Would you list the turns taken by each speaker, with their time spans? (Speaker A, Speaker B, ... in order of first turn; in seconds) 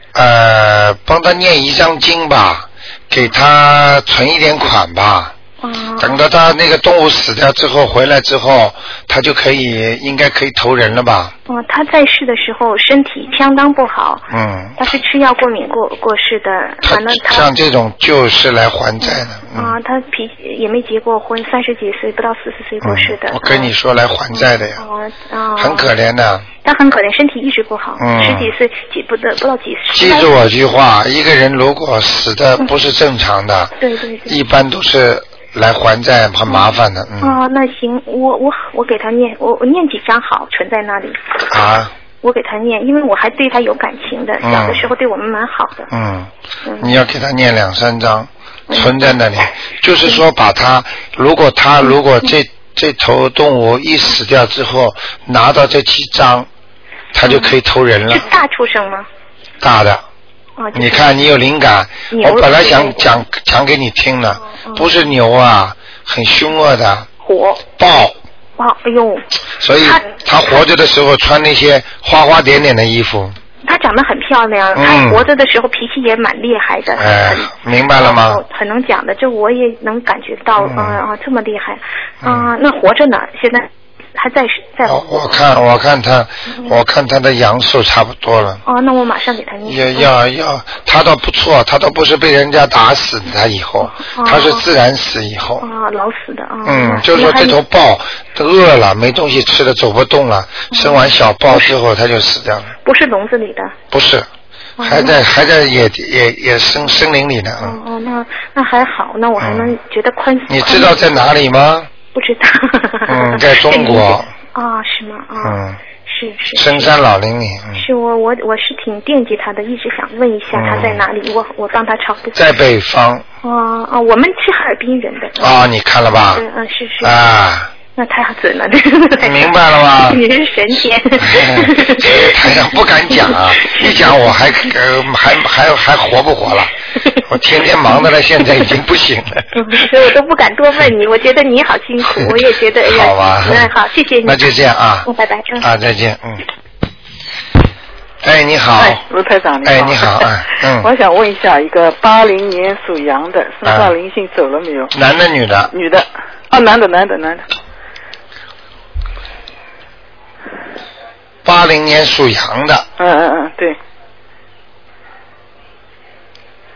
Speaker A: 0.1-5.3, 6.0-11.3, 14.3-14.8, 16.8-19.8, 22.8-24.8, 25.6-26.5, 28.0-28.5, 29.9-33.7, 34.3-37.4, 41.5-41.9, 44.4-44.9, 45.9-56.5, 57.1-58.3, 59.6-60.0, 60.7-67.1, 67.8-68.2, 69.6-73.3, 74.8-75.3, 77.0-78.4, 80.6-81.0, 82.2-82.5, 84.9-88.6, 89.7-95.7, 96.7-102.7, 103.9-104.3, 104.8-107.8, 109.4-109.8, 110.5-111.9, 113.1-114.3, 115.4-115.8, 116.6-117.8, 120.5-121.0, 122.3-123.2, 125.4-126.5, 127.0-127.7, 129.2-130.2, 131.2-136.7, 137.3-139.8, 142.8-143.7, 144.2-145.1, 145.6-146.4, 148.2-149.0, 149.7-150.9, 153.7-153.9, 154.9-155.7, 161.4-162.9
Speaker B: 5.6-6.2, 11.5-14.2, 14.8-17.5, 19.0-23.7, 24.3-25.9, 26.6-30.3, 33.8-34.4, 36.5-41.2, 42.2-45.9, 46.6-47.0, 48.7-49.1, 57.2-57.6, 58.1-59.1, 60.6-61.1, 62.1-63.1, 64.4-64.9, 67.2-67.6, 68.6-69.3, 69.8-70.1, 73.7-85.3, 88.7-90.1, 93.8-94.6, 95.6-97.6, 100.7-101.7, 102.8-103.8, 104.8-105.2, 107.6-111.0, 112.1-116.9, 117.7-122.4, 123.4-125.6, 126.3-127.2, 127.9-134.7, 139.6-144.5, 145.0-145.7
Speaker C: 148.8-150.3, 150.8-154.9, 155.7-157.4, 163.0-163.8